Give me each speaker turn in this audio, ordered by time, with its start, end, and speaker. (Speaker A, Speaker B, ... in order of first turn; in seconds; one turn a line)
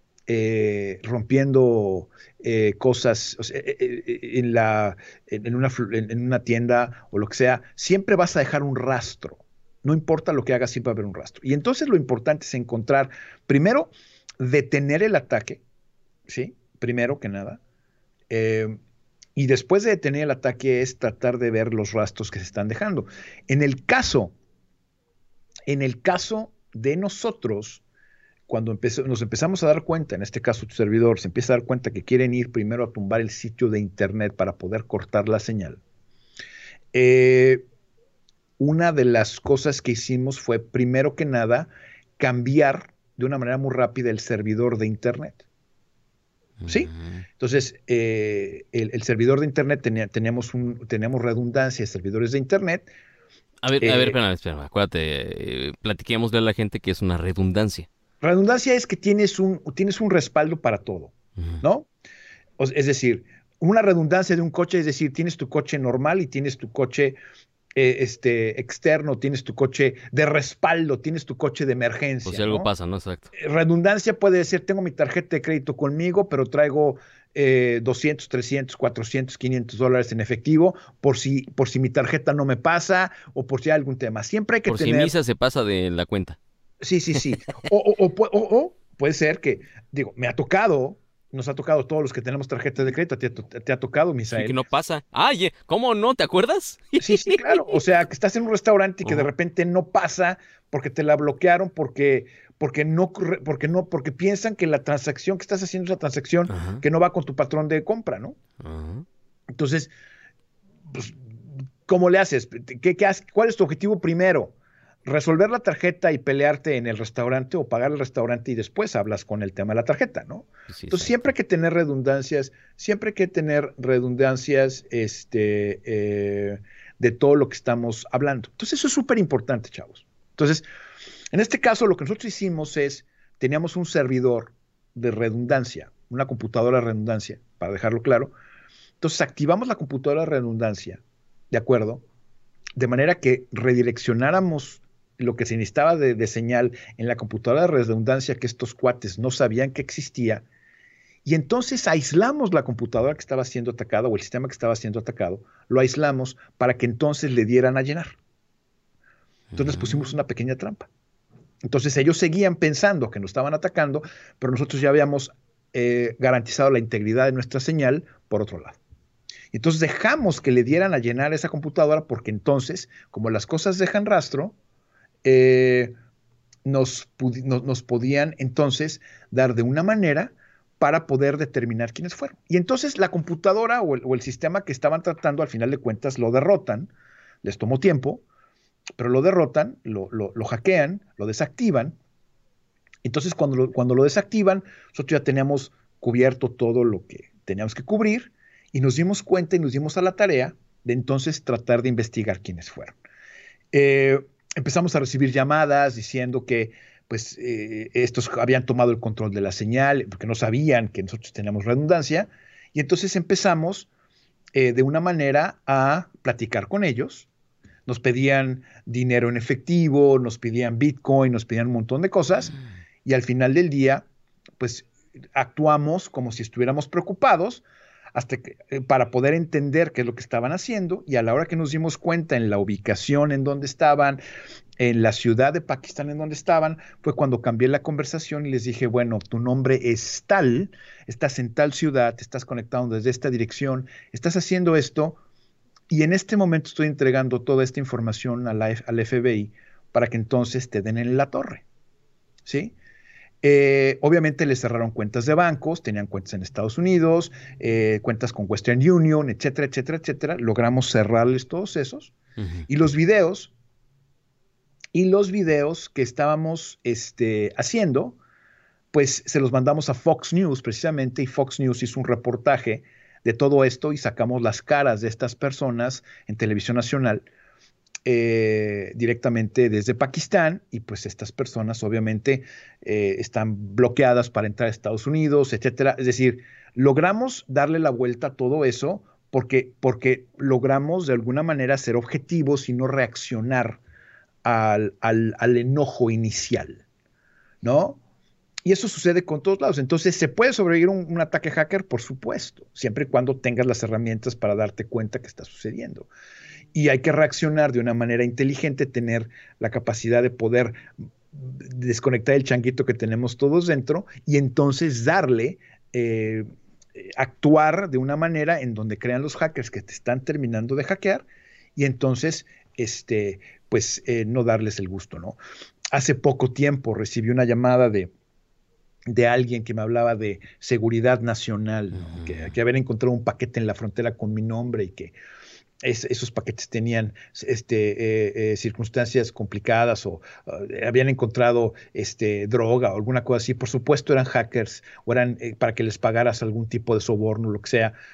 Speaker A: 0.3-15.6
Speaker A: 16.3-17.6
Speaker A: 18.3-18.8
Speaker A: 19.4-24.3
Speaker A: 25.7-27.8
Speaker A: 28.5-35.8
Speaker A: 36.9-37.6
Speaker A: 38.6-45.4
Speaker B: 46.6-47.2
Speaker A: 46.7-52.9
Speaker B: 53.6-57.9
Speaker A: 53.8-54.2
Speaker A: 58.2-61.9
Speaker A: 62.6-67.2
Speaker A: 67.7-72.7
Speaker B: 72.2-73.3
Speaker A: 73.3-85.1
Speaker B: 84.7-86.4
Speaker A: 86.8-94.6
Speaker B: 94.3-97.8
Speaker A: 97.0-108.4
Speaker B: 106.5-106.8
Speaker B: 108.6-109.0
Speaker A: 109.5-109.9
Speaker A: 110.9-111.3
Speaker A: 111.8-114.5
Speaker A: 115.0-130.7
Speaker B: 120.7-121.3
Speaker A: 131.3-138.3
Speaker A: 139.0-142.0
Speaker A: 142.8-150.4
Speaker A: 151.2-158.2
Speaker B: 159.5-160.0
Speaker A: 159.5-160.9
Speaker A: 161.6-168.8
Speaker A: 169.5-174.5
Speaker A: 175.2-175.9
Speaker A: 176.6-186.9
Speaker A: 187.4-188.2
Speaker A: 188.9-192.0
Speaker A: 193.0-203.0
Speaker A: 203.7-213.9
Speaker A: 214.5-217.3
Speaker A: 217.8-224.1
Speaker A: 224.6-234.2
Speaker A: 234.8-245.2
Speaker A: 245.9-251.6
Speaker A: 252.4-252.7
Speaker A: 253.4-262.1
Speaker B: 262.4-262.6
Speaker A: 262.7-263.5
Speaker A: 264.9-268.2
Speaker A: 268.9-277.3
Speaker A: 278.0-293.8
Speaker A: 294.4-296.8
Speaker A: 297.6-298.0
Speaker A: 298.6-306.1
Speaker A: 306.7-321.2
Speaker A: 321.8-325.4
Speaker A: 325.9-328.1
Speaker A: 329.1-335.1
Speaker B: 332.0-332.5
Speaker A: 335.8-347.9